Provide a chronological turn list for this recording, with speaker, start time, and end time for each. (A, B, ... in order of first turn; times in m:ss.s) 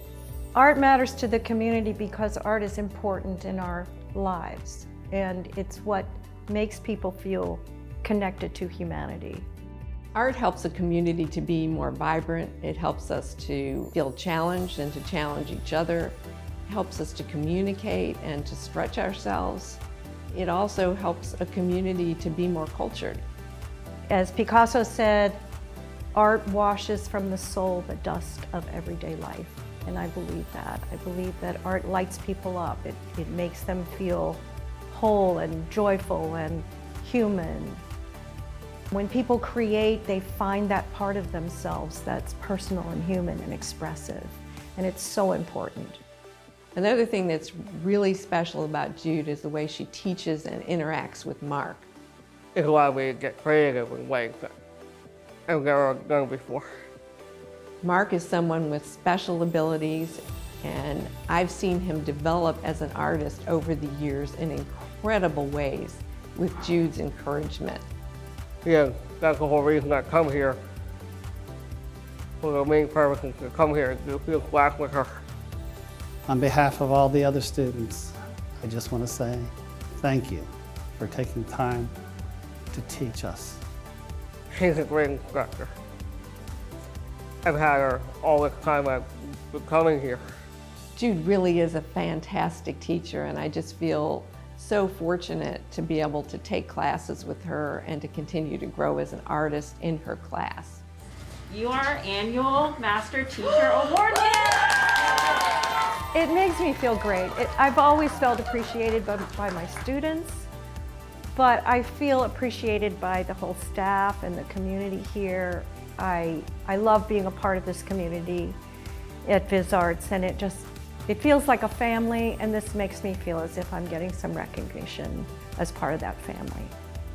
0:00.5-0:09.5 A
0:10.1-0:23.2 B
0:24.1-0:25.4 A
0:26.1-0:37.8 A
0:38.9-0:46.0 A
0:46.7-0:51.9 B
0:52.5-0:54.5 C
0:55.5-0:56.7 C
0:57.8-1:07.8 B
1:08.6-1:10.6 C
1:12.4-1:15.2 C
1:16.3-1:21.9 D
1:22.7-1:23.6 D
1:24.5-1:25.7 C
1:27.4-1:30.2 C
1:30.9-1:40.8 B
1:41.5-1:44.9 E
1:46.1-1:50.5 A
1:51.3-1:58.6 A
1:59.2-2:06.7 A